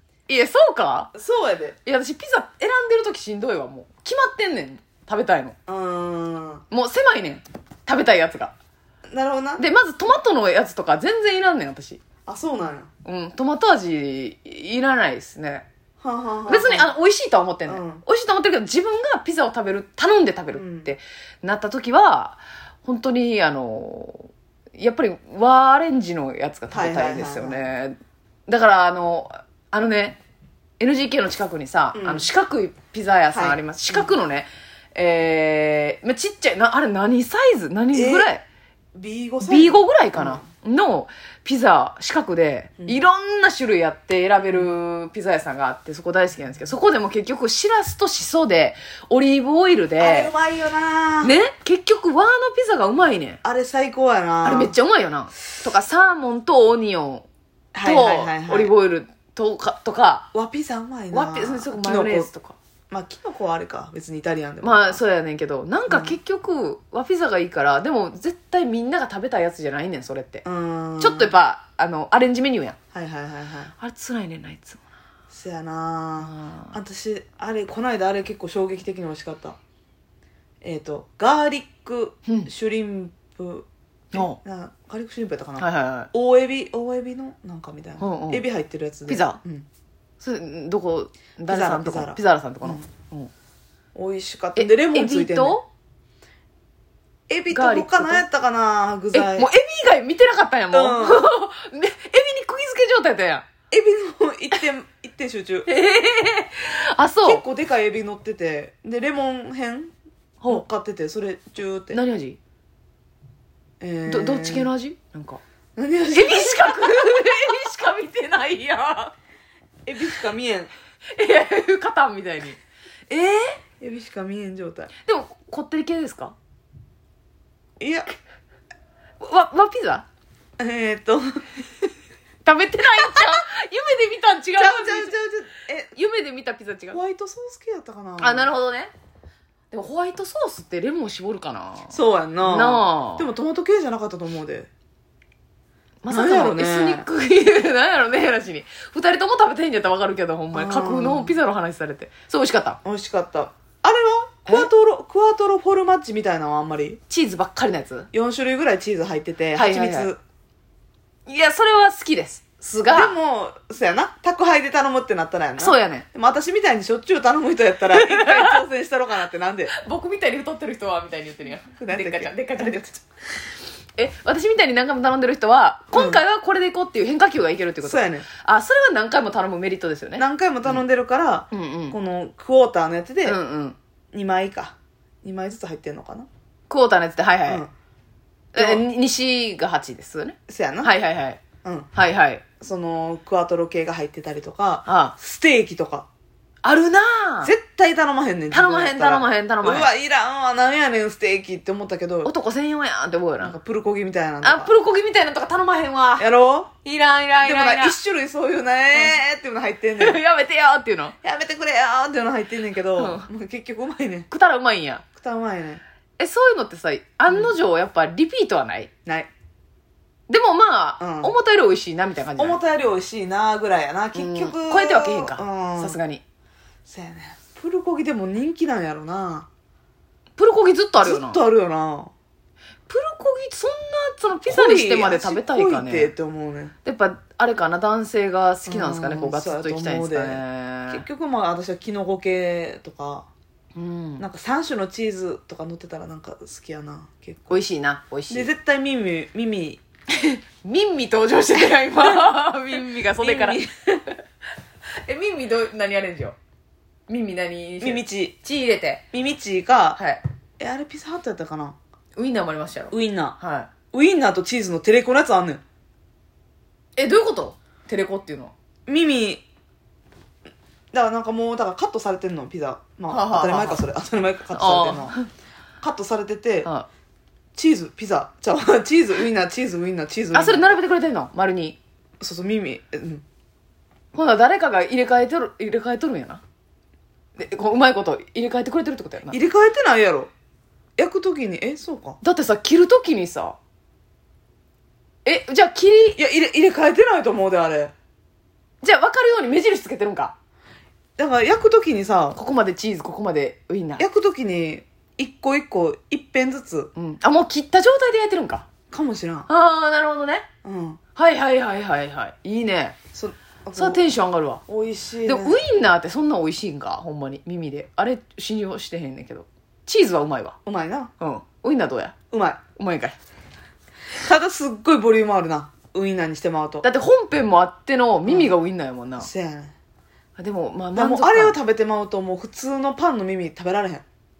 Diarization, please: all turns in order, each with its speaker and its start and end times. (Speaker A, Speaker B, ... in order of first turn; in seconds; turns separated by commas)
Speaker A: 0.3-1.1, Speaker B: 1.1-1.8, Speaker A: 1.8-5.5, Speaker B: 5.7-6.6, Speaker A: 6.7-8.5, Speaker B: 9.1-9.7, Speaker A: 9.6-12.0, Speaker B: 12.3-12.9, Speaker A: 13.0-15.7, Speaker B: 16.0-16.9, Speaker A: 16.5-30.2, Speaker B: 17.6-18.0, Speaker B: 20.5-20.9, Speaker B: 26.7-27.7, Speaker A: 30.8-38.4, Speaker B: 31.9-32.3, Speaker B: 33.3-34.1, Speaker B: 37.9-38.3, Speaker B: 38.9-40.4, Speaker A: 39.4-50.3, Speaker B: 44.4-44.7, Speaker B: 50.0-51.4, Speaker A: 51.2-53.4, Speaker B: 53.4-54.7, Speaker A: 54.4-57.3, Speaker B: 57.7-58.7, Speaker A: 57.8-60.3, Speaker B: 60.3-62.3, Speaker A: 61.1-62.5, Speaker B: 62.9-65.0, Speaker A: 64.6-70.4, Speaker B: 65.9-66.2, Speaker B: 70.4-71.3, Speaker A: 71.0-72.8, Speaker B: 72.9-73.7, Speaker A: 73.8-74.8, Speaker B: 75.3-79.6, Speaker A: 76.2-76.7, Speaker B: 80.6-89.7, Speaker A: 84.1-84.4, Speaker A: 85.6-86.1, Speaker A: 88.0-88.5, Speaker A: 89.1-89.4, Speaker A: 90.2-93.3, Speaker B: 91.5-92.8, Speaker B: 93.9-95.6, Speaker A: 94.5-95.7, Speaker B: 97.3-99.5, Speaker A: 97.5-98.2, Speaker A: 99.1-103.4, Speaker B: 100.7-101.2, Speaker B: 103.7-105.7, Speaker A: 105.7-107.4, Speaker B: 107.2-109.9, Speaker B: 110.5-112.0, Speaker A: 111.9-112.4, Speaker B: 113.8-114.7, Speaker A: 114.0-115.4, Speaker B: 115.8-117.4, Speaker A: 116.1-119.1, Speaker B: 119.8-120.7, Speaker A: 121.1-123.6, Speaker B: 123.8-124.9, Speaker A: 125.0-126.3, Speaker B: 127.8-128.1, Speaker A: 129.2-130.1, Speaker B: 130.6-131.4, Speaker A: 132.4-135.1, Speaker B: 134.6-135.9, Speaker A: 135.9-137.0, Speaker B: 136.9-138.5, Speaker A: 138.2-138.9, Speaker A: 139.7-143.3, Speaker B: 141.9-144.7, Speaker A: 146.0-152.8, Speaker B: 146.1-147.1, Speaker B: 150.5-151.3, Speaker B: 152.8-157.0, Speaker A: 157.1-158.1, Speaker B: 158.1-160.2, Speaker A: 159.6-160.1, Speaker A: 161.2-163.1, Speaker B: 162.9-169.7, Speaker A: 165.6-166.1, Speaker A: 167.9-168.6, Speaker A: 169.7-173.0, Speaker B: 171.8-172.8, Speaker A: 173.9-180.8, Speaker B: 175.9-176.2, Speaker B: 177.8-178.2, Speaker B: 180.2-183.4, Speaker A: 181.5-182.0, Speaker A: 183.2-183.8, Speaker B: 184.1-186.3, Speaker A: 186.7-187.6, Speaker B: 188.5-188.8, Speaker A: 188.5-191.4, Speaker B: 190.5-190.9, Speaker B: 191.6-191.9, Speaker A: 191.9-192.4, Speaker B: 192.6-196.1, Speaker A: 194.8-195.1, Speaker A: 196.6-197.5, Speaker B: 197.4-202.3, Speaker A: 198.5-199.9, Speaker A: 202.2-203.6, Speaker B: 203.4-204.7, Speaker A: 204.4-206.3, Speaker B: 206.2-206.7, Speaker A: 206.8-207.9, Speaker B: 207.4-210.2, Speaker A: 210.0-211.2, Speaker B: 211.2-214.3, Speaker A: 212.9-213.3, Speaker A: 214.3-215.0, Speaker B: 215.1-215.8, Speaker A: 216.2-218.9, Speaker A: 220.3-222.6, Speaker B: 221.0-221.3, Speaker B: 222.4-226.0, Speaker A: 224.1-226.2, Speaker B: 226.9-229.5, Speaker A: 230.4-231.4, Speaker B: 231.0-232.1, Speaker A: 232.9-236.1, Speaker B: 234.5-236.7, Speaker A: 236.8-241.0, Speaker B: 238.7-243.3, Speaker A: 243.7-244.2, Speaker B: 244.2-247.6, Speaker A: 247.5-248.5, Speaker B: 248.3-249.8, Speaker A: 250.1-254.2, Speaker B: 251.6-252.3, Speaker B: 253.2-253.7, Speaker A: 255.0-256.4, Speaker A: 257.1-259.0, Speaker B: 257.8-258.4, Speaker B: 259.1-260.0, Speaker A: 259.9-260.2, Speaker B: 260.6-261.8, Speaker A: 262.1-263.7, Speaker B: 262.9-263.4, Speaker B: 263.9-265.6, Speaker A: 266.9-268.5, Speaker B: 268.9-269.4, Speaker B: 270.9-275.2, Speaker A: 273.1-273.8, Speaker A: 274.5-275.3, Speaker B: 275.8-276.7, Speaker B: 277.5-280.8, Speaker A: 280.3-281.8, Speaker B: 282.2-283.2, Speaker A: 284.1-286.4, Speaker A: 287.4-289.4, Speaker B: 289.3-290.3, Speaker B: 291.0-292.2, Speaker A: 292.2-293.6, Speaker A: 295.2-296.2, Speaker B: 296.2-297.9, Speaker A: 298.8-300.3, Speaker B: 301.2-302.4, Speaker A: 302.3-304.0, Speaker B: 304.0-306.9, Speaker A: 306.9-308.6, Speaker B: 308.9-309.5, Speaker A: 309.5-310.5, Speaker B: 310.6-311.0, Speaker A: 311.1-313.0, Speaker B: 313.1-314.0, Speaker A: 313.7-314.6, Speaker B: 314.7-315.6, Speaker A: 315.2-320.6, Speaker B: 320.6-321.1, Speaker A: 321.2-322.1, Speaker B: 322.3-322.6, Speaker A: 322.8-323.1, Speaker B: 324.2-326.9, Speaker A: 326.8-329.3, Speaker B: 328.2-328.5, Speaker B: 329.2-329.7, Speaker A: 330.4-331.6, Speaker B: 330.9-334.0